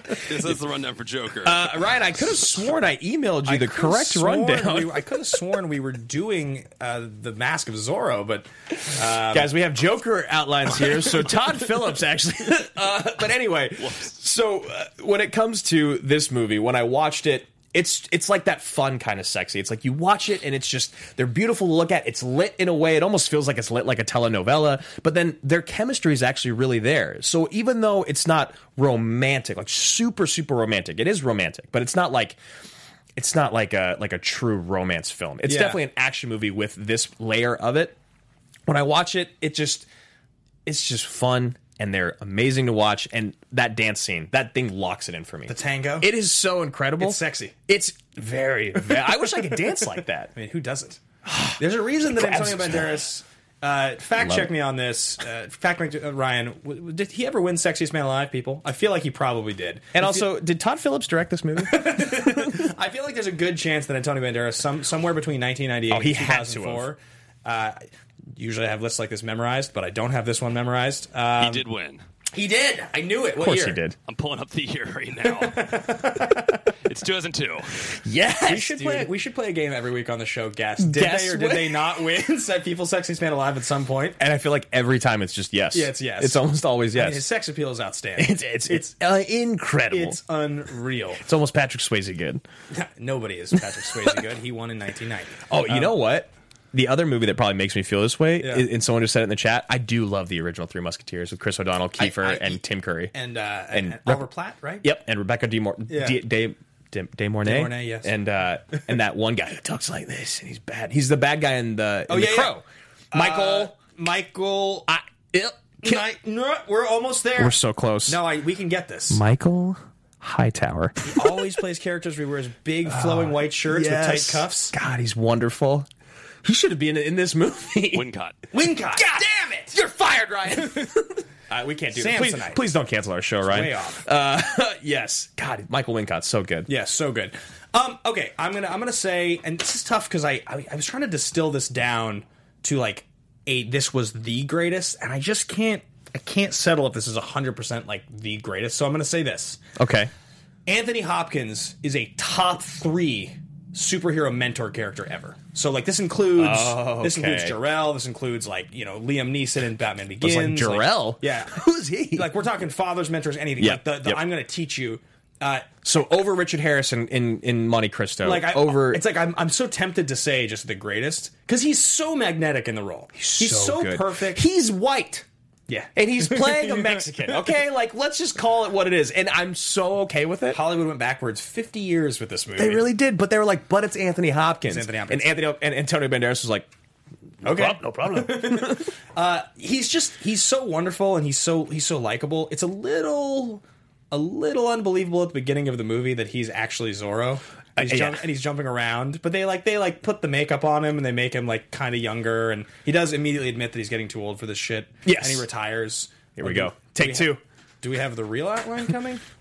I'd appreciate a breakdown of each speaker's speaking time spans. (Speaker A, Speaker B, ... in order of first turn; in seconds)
Speaker A: 0.2-1.7, 71.4-72.0, 74.1-75.8, 76.8-77.8, 127.9-128.3
Speaker B: 1.4-5.1, 9.3-32.4, 33.1-38.0, 38.7-39.9, 40.6-50.3, 51.2-52.9, 54.2-54.5, 59.9-62.7, 65.9-66.9, 73.4-74.0, 78.0-79.1, 80.8-82.0, 84.2-87.2, 88.2-90.2, 91.2-92.4, 95.5-103.1, 103.7-104.2, 104.8-113.7, 114.9-116.0, 117.4-118.2, 119.1-121.3, 122.8-125.9, 126.4-128.1, 128.9-136.7, 149.8-150.1, 156.4-157.6, 160.2-162.3, 163.6-164.2, 165.8-169.0, 173.2-175.2, 175.9-180.6, 182.6-186.7, 187.4-188.9, 197.8-198.2, 205.0-205.4, 206.3-207.4
Speaker C: 3.5-9.5, 35.4-35.8, 45.5-46.1, 47.0-47.5, 50.3-51.0, 51.5-60.2, 61.6-67.8, 68.3-71.6, 72.3-73.8, 75.4-76.7, 78.5-84.2, 85.7-88.9, 89.9-91.2, 92.7-95.9, 98.4-98.7, 102.0-102.6, 103.1-104.8, 105.9-106.2, 107.4-108.1, 112.1-112.5, 113.1-114.9, 115.8-119.2, 121.0-124.7, 128.5-129.8, 131.9-132.6, 133.4-134.0, 136.7-149.6, 150.7-161.6, 162.1-165.7, 168.2-174.4, 175.7-177.1, 180.5-182.8, 184.7-185.3, 187.4-209.2